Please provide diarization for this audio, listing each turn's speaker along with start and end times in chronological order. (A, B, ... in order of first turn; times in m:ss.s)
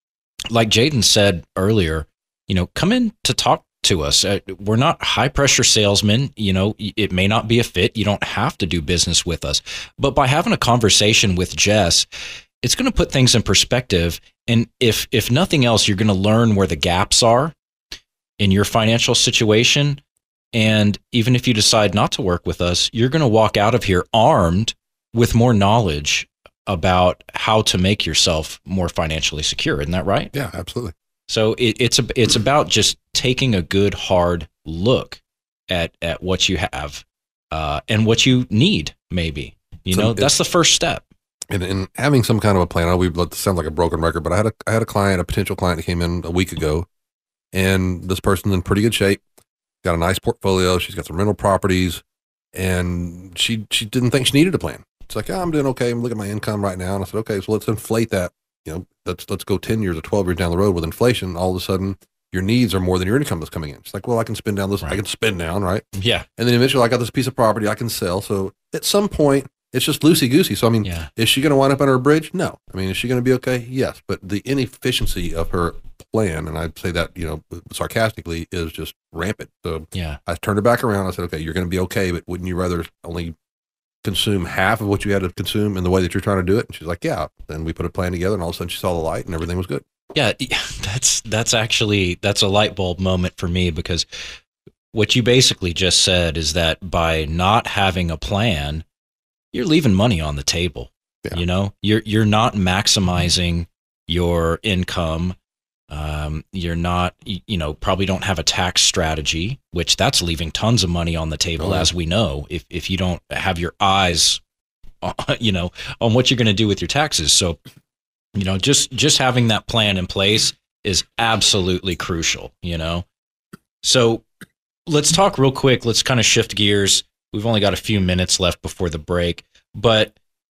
0:00.5-0:12.1 A
0:12.6-0:17.6 A
0:18.4-0:20.0 A
0:20.5-0:30.3 A
0:30.3-0:30.9 B
0:31.3-0:41.0 A
0:39.9-0:40.3 B
0:41.5-0:46.9 B
0:47.5-0:49.2 B
0:49.8-0:52.0 B
0:52.5-1:23.4 B
1:06.0-1:06.3 A
1:10.8-1:11.1 A
1:19.9-1:20.2 A
1:24.0-1:29.8 B
1:30.1-1:34.1 A
1:34.9-1:38.8 A
1:39.5-1:45.4 A
1:45.9-1:54.4 A
1:51.6-1:51.9 B
1:55.0-1:57.6 A
1:58.4-2:03.1 A
2:03.8-2:04.3 A
2:04.9-2:10.2 A